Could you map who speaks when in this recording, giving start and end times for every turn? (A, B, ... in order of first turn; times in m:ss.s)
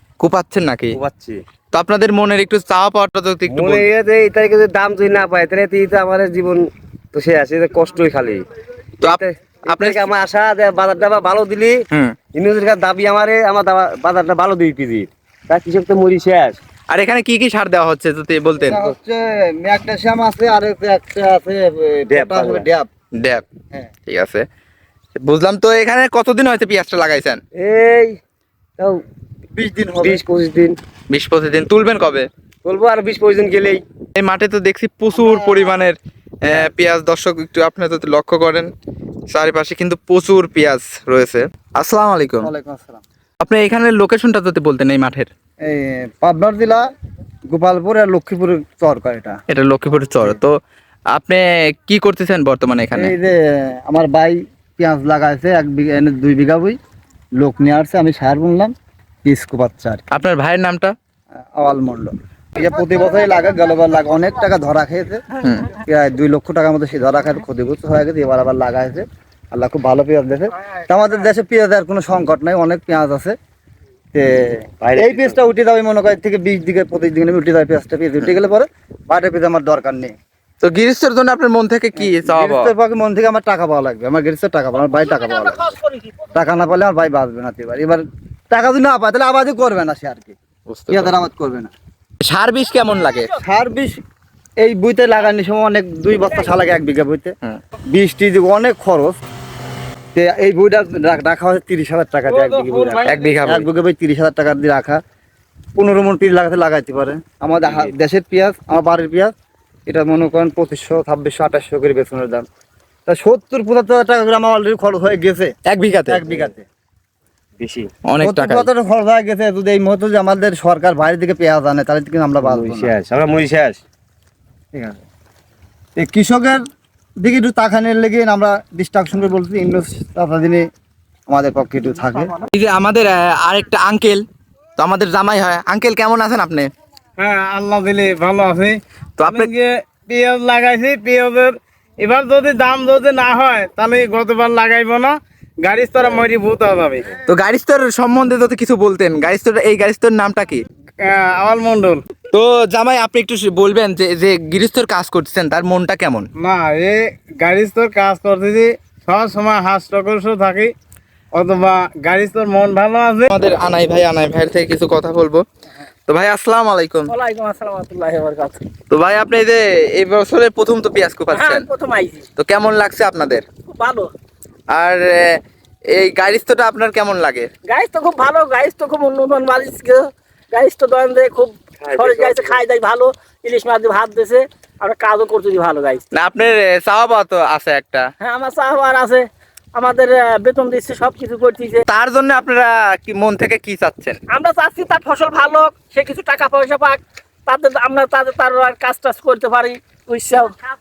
0:00.2-0:01.0 A
0:00.9-0:01.4 B
0:01.7-0:03.9 A
0:03.5-0:08.4 B
0:09.0-0:10.1 A
0:09.0-0:11.8 B
0:12.3-0:16.6 B
0:16.9-0:18.8 A
0:18.6-0:22.9 C
0:22.1-0:22.7 B
0:23.2-0:23.4 A
0:24.1-0:24.4 A
0:25.2-0:27.4 A
0:27.6-0:28.2 B
0:29.6-0:30.2 C
0:30.0-0:30.8 B
0:31.1-0:32.3 A
0:32.6-0:33.8 B
0:34.2-0:38.7 A
0:35.1-0:35.7 C
0:39.3-0:42.5 A
0:42.4-0:43.0 C
0:43.4-0:45.3 A
0:45.6-0:46.8 C
0:47.5-0:49.4 C
0:49.5-0:50.6 A
0:51.1-0:53.2 A
0:52.9-0:56.8 C
0:57.4-0:58.7 C
0:59.2-1:00.0 C
1:00.1-1:00.9 A
1:01.6-1:05.2 C
1:05.4-1:05.7 A
1:05.8-1:13.4 C
1:14.1-1:20.1 C
1:14.8-1:15.4 B
1:20.6-1:22.8 A
1:22.0-1:25.7 C
1:25.1-1:26.2 D
1:26.4-1:30.4 C
1:30.7-1:31.2 A
1:30.9-1:31.7 C
1:32.2-1:33.3 A
1:33.3-1:34.0 C
1:34.6-1:37.3 C
1:37.9-1:39.2 C
1:40.2-1:45.0 C
1:42.3-1:43.3 E
1:43.1-1:43.7 A
1:45.8-1:49.3 C
1:47.6-1:47.9 B
1:49.9-1:52.4 C
1:53.1-1:55.5 C
1:55.7-1:56.2 A
1:56.1-1:56.6 C
1:57.6-1:57.9 B
1:58.1-1:58.7 A
1:58.2-2:02.9 C
2:02.4-2:03.8 B
2:06.0-2:06.6 C
2:07.2-2:10.6 C
2:11.3-2:12.4 C
2:12.5-2:14.2 A
2:14.8-2:16.7 A
2:17.2-2:27.1 E
2:19.2-2:19.5 A
2:27.2-2:30.6 A
2:31.0-2:32.0 E
2:32.3-2:36.3 A
2:36.4-2:40.7 E
2:41.4-2:43.3 E
2:43.3-2:45.4 A
2:46.1-2:47.1 A
2:47.1-2:48.6 D
2:48.9-2:51.7 A
2:51.3-2:52.3 D
2:52.4-2:53.5 A
2:53.6-2:54.1 D
2:54.7-2:55.2 A
2:55.9-2:57.5 A
2:57.7-3:06.0 D
3:01.8-3:02.6 B
3:06.1-3:08.0 A
3:08.2-3:09.2 D
3:09.8-3:11.8 D
3:11.9-3:14.2 A
3:14.3-3:20.6 D